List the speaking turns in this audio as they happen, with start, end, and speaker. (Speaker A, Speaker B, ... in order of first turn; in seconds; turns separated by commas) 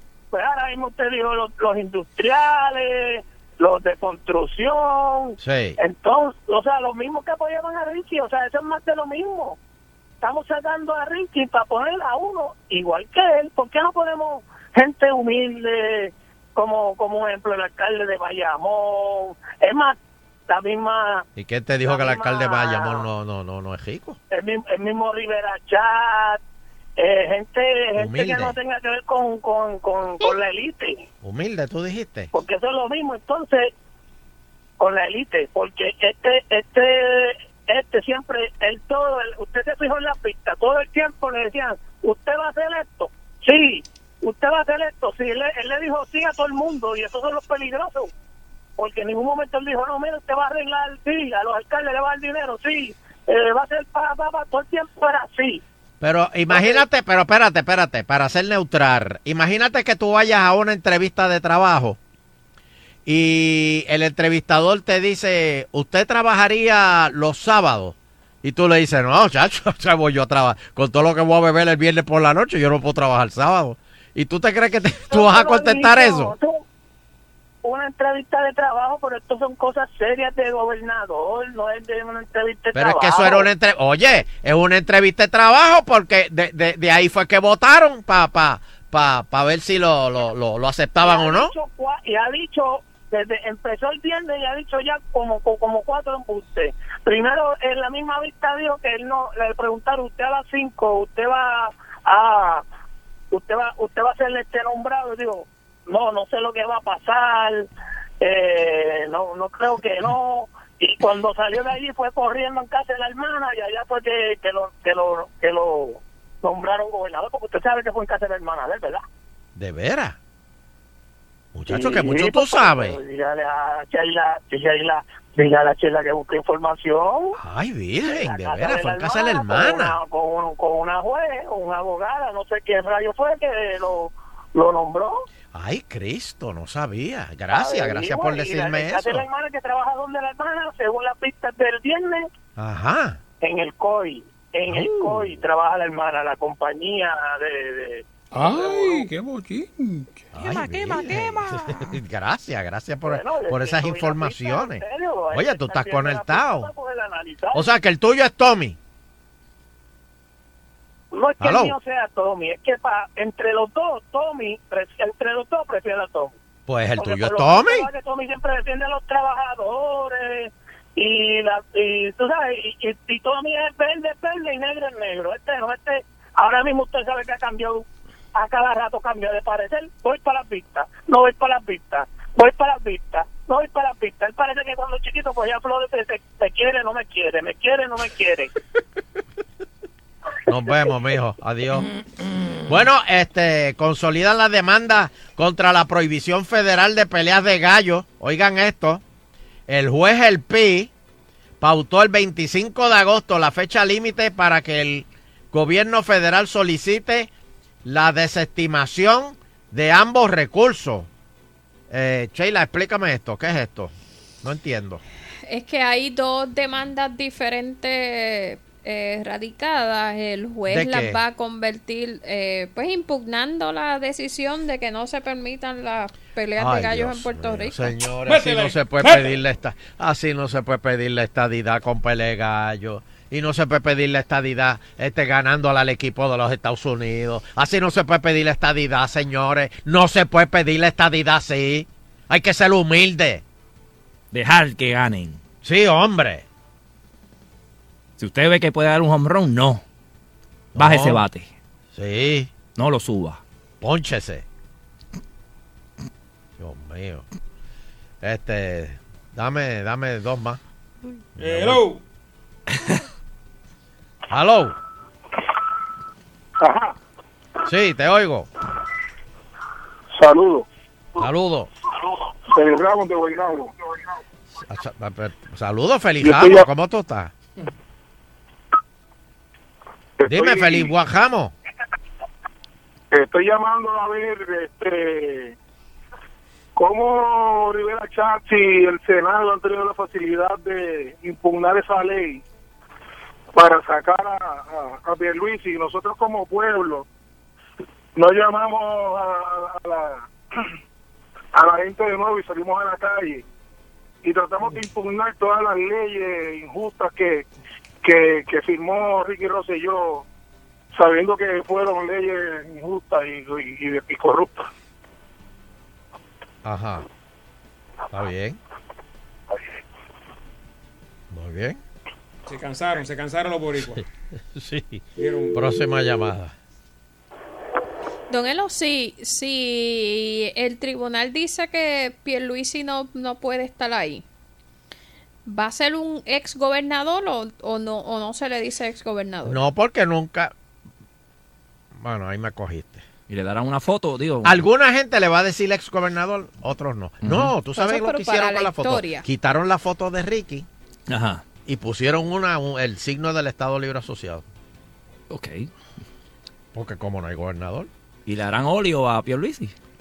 Speaker A: 0.3-9.6, Speaker B: 5.4-5.8, Speaker A: 10.2-20.0, Speaker A: 20.5-21.2, Speaker B: 21.4-24.2, Speaker A: 21.9-23.0, Speaker A: 24.3-26.4, Speaker A: 27.0-31.0, Speaker B: 27.9-28.5, Speaker B: 31.2-32.3, Speaker A: 32.3-33.7, Speaker A: 34.8-48.1, Speaker A: 48.8-55.6, Speaker B: 56.0-62.0, Speaker A: 56.5-56.8, Speaker B: 63.0-76.3, Speaker A: 75.1-76.6, Speaker A: 77.6-83.5, Speaker B: 82.7-91.5, Speaker A: 91.0-102.6, Speaker A: 103.3-107.7, Speaker A: 108.2-119.0, Speaker B: 119.5-120.2, Speaker B: 121.5-123.0, Speaker A: 121.7-127.4, Speaker B: 127.3-130.0, Speaker A: 128.1-135.2, Speaker B: 135.5-139.3, Speaker A: 137.5-142.3, Speaker B: 142.6-143.2, Speaker A: 143.4-149.1, Speaker B: 144.7-145.4, Speaker C: 148.3-151.5, Speaker B: 150.3-156.7, Speaker A: 153.0-157.7, Speaker B: 157.5-158.8, Speaker A: 161.1-166.3, Speaker B: 161.4-161.8, Speaker B: 166.7-167.9, Speaker A: 167.0-188.5, Speaker B: 190.5-191.9, Speaker C: 191.8-192.6, Speaker B: 192.7-199.0, Speaker B: 199.7-200.9, Speaker B: 201.6-207.3, Speaker B: 207.8-211.1, Speaker B: 211.9-215.0, Speaker D: 215.4-227.9, Speaker B: 220.7-221.2, Speaker B: 226.6-243.4, Speaker C: 228.2-229.3, Speaker E: 244.3-245.4, Speaker B: 245.6-246.4, Speaker E: 248.2-249.8, Speaker B: 250.7-251.2, Speaker E: 250.8-251.5, Speaker B: 251.9-252.5, Speaker E: 252.7-253.4, Speaker B: 253.8-254.4, Speaker B: 256.6-257.3, Speaker B: 258.2-260.6, Speaker B: 261.4-261.8, Speaker C: 261.4-262.0, Speaker B: 264.3-264.7, Speaker F: 266.6-266.9, Speaker B: 267.6-268.5, Speaker F: 270.1-270.6, Speaker B: 271.2-271.7, Speaker F: 272.4-274.1, Speaker B: 274.6-277.3, Speaker F: 276.2-276.7, Speaker F: 280.2-280.9, Speaker B: 280.2-281.5, Speaker F: 283.1-285.5, Speaker F: 286.8-292.4, Speaker F: 293.5-297.1, Speaker F: 298.1-300.2, Speaker F: 301.5-303.4, Speaker F: 304.2-307.4, Speaker F: 308.0-310.2, Speaker F: 310.9-314.6, Speaker B: 316.6-317.1, Speaker B: 318.1-318.6, Speaker B: 321.3-321.8, Speaker C: 322.4-324.0, Speaker B: 324.5-326.5, Speaker C: 325.2-325.6, Speaker D: 328.3-334.2, Speaker D: 335.4-339.6, Speaker B: 339.4-340.5, Speaker B: 341.9-343.0, Speaker E: 343.3-344.6, Speaker B: 344.4-350.7, Speaker E: 347.2-347.5, Speaker D: 347.7-349.2, Speaker E: 351.1-351.4, Speaker B: 351.6-354.4, Speaker E: 355.3-355.7, Speaker B: 356.7-357.9, Speaker E: 358.2-359.7